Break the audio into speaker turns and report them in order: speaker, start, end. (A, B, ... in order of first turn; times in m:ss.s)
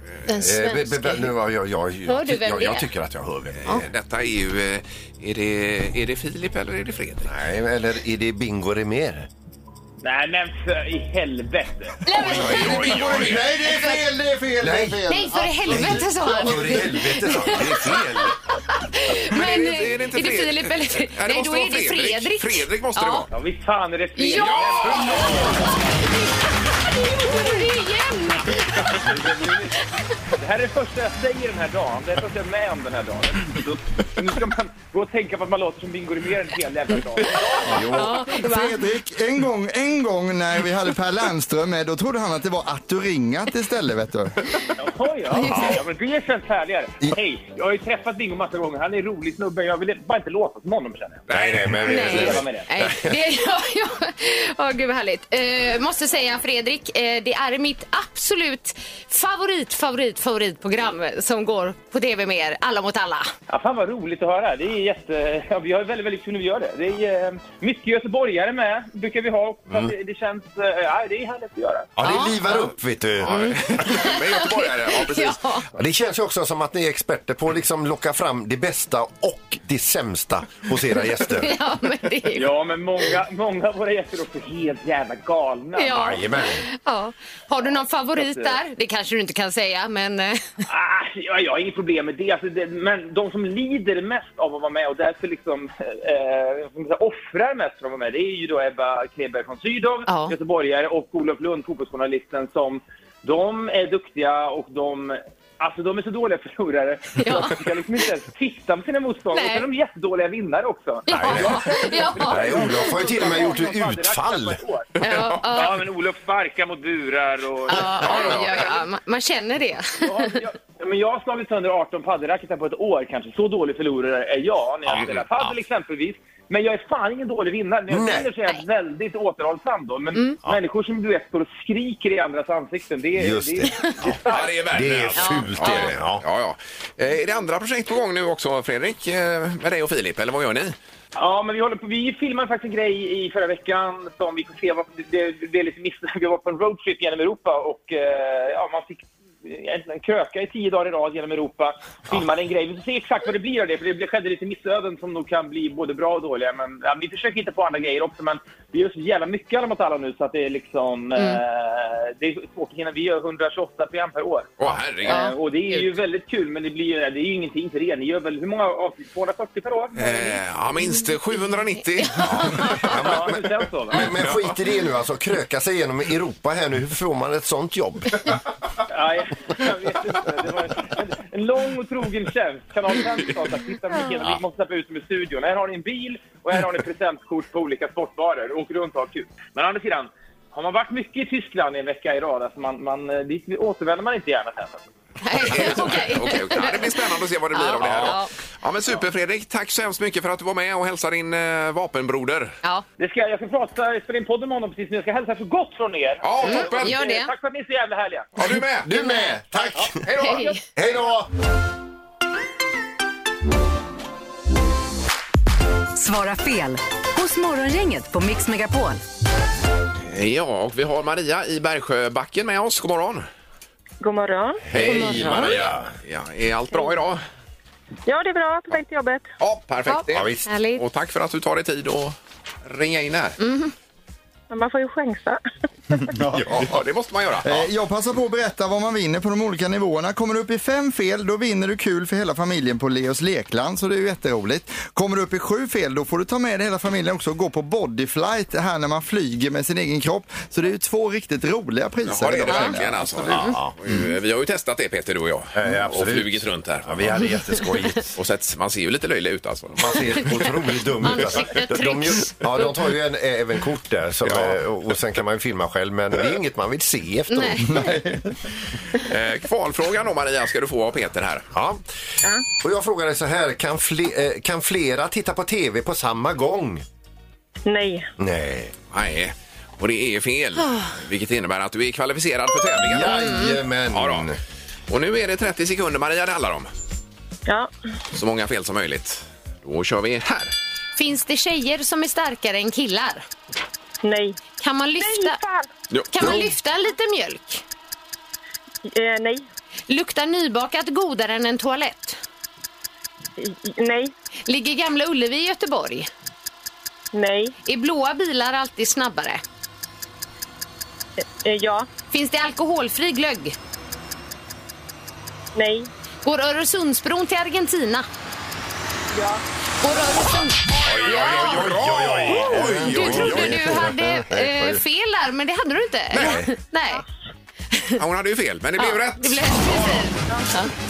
0:00.3-0:01.3 A
0:00.4-0:03.9 B
0:02.1-0:02.9 A
0:03.7-0:07.3 C
0:07.2-0:09.3 B
0:10.0-0:12.0 D
0:12.0-0:14.0 A
0:12.1-0:13.2 B
0:12.1-0:13.4 C
0:12.8-0:16.7 E
0:14.6-0:15.0 B
0:15.1-0:23.3 A
0:15.7-0:18.4 B
0:19.3-0:23.3 C
0:23.3-0:25.6 D
0:24.2-0:25.6 A
0:24.3-0:25.7 C
0:26.9-0:29.1 A
0:28.9-0:29.8 D
0:30.3-0:37.8 D
0:37.6-0:38.1 B
0:37.7-0:38.8 A
0:38.2-0:44.4 E
0:44.8-0:51.3 D
0:45.3-0:45.8 A
0:45.5-0:45.8 B
0:51.3-0:53.2 B
0:51.8-1:03.3 A
0:51.9-0:52.7 D
1:03.5-1:11.9 D
1:12.0-1:13.8 B
1:12.0-1:12.7 A
1:13.2-1:15.4 C
1:13.3-1:15.7 A
1:15.8-1:21.5 B
1:21.3-1:22.5 A
1:22.3-1:26.2 D
1:25.8-1:30.5 A
1:25.9-1:26.6 B
1:28.1-1:28.6 D
1:30.7-1:54.9 D
1:40.1-1:40.4 A
1:47.2-1:47.6 A
1:49.3-1:49.7 A
1:51.1-1:51.8 B
1:51.1-1:53.6 A
1:52.3-1:54.6 B
1:55.0-1:55.8 A
1:55.0-1:55.7 C
1:55.5-1:58.8 D
1:57.7-2:00.4 A
1:58.0-1:58.7 C
2:00.0-2:14.6 D
2:04.9-2:05.3 C
2:07.9-2:08.3 B
2:13.2-2:16.2 B
2:14.2-2:20.8 C
2:15.1-2:16.0 A
2:21.2-2:44.5 D
2:41.2-2:41.4 A
2:44.6-2:45.3 C
2:45.0-2:50.3 D
2:45.1-2:45.9 A
2:50.0-2:52.9 C
2:52.2-2:52.9 A
2:52.2-2:58.4 B
2:52.8-2:54.1 D
2:53.9-2:54.5 C
2:58.9-3:14.8 D
3:15.2-3:18.3 A
3:15.3-3:22.6 C
3:17.8-3:18.1 B
3:23.0-3:28.4 D
3:26.2-3:27.0 C
3:26.4-3:27.3 A
3:28.4-3:28.9 C
3:28.8-3:31.3 B
3:28.9-3:29.4 A
3:30.0-3:30.5 C
3:30.2-3:30.6 A
3:36.0-3:39.0 F
3:40.1-3:43.2 C
3:44.0-3:44.6 G
3:44.7-3:45.9 B
3:44.7-3:47.2 C
3:44.8-3:45.6 A
3:48.1-3:49.2 G
3:49.4-3:53.4 C
3:49.9-3:50.8 A
3:50.1-3:50.5 B
3:53.4-3:53.7 A
3:54.5-3:55.4 G
3:55.9-3:56.8 E
3:56.4-3:57.7 C
3:57.4-4:13.2 E
4:12.1-4:17.3 C
4:12.5-4:12.8 A
4:13.3-4:13.7 B
4:13.3-4:13.6 A
4:15.6-4:18.2 B
4:18.2-4:20.2 C
4:19.8-4:28.0 B
4:21.0-4:22.7 A
4:24.2-4:24.6 C
4:27.3-4:28.0 A
4:27.7-4:28.3 E
4:29.0-4:31.5 C
4:31.6-4:31.8 B
4:32.6-4:36.8 B
4:37.7-4:38.1 G
4:38.2-4:38.7 B
4:38.9-4:43.3 C
4:42.8-4:44.4 B
4:43.1-4:43.6 A
4:43.9-4:44.3 C
4:44.9-4:46.7 C
4:48.1-4:50.5 C
4:51.0-4:53.2 A
4:54.0-4:54.4 G
4:54.6-4:55.4 A
4:55.0-4:55.7 G
4:55.9-4:56.5 C
4:56.1-4:57.6 A
4:58.9-4:59.5 G
4:59.9-5:02.2 A
5:03.4-5:04.1 G
5:04.5-5:06.1 A
5:07.1-5:07.5 G
5:07.6-5:09.4 A
5:11.3-5:11.9 G
5:12.1-5:13.6 A
5:15.6-5:15.9 G
5:16.2-5:18.1 A
5:19.1-5:19.4 G
5:19.8-5:21.8 A
5:20.8-5:23.9 C
5:20.9-5:24.8 B
5:22.3-5:27.0 A
5:26.1-5:26.4 C
5:26.2-5:26.5 B
5:28.0-5:30.2 C
5:28.8-5:30.7 A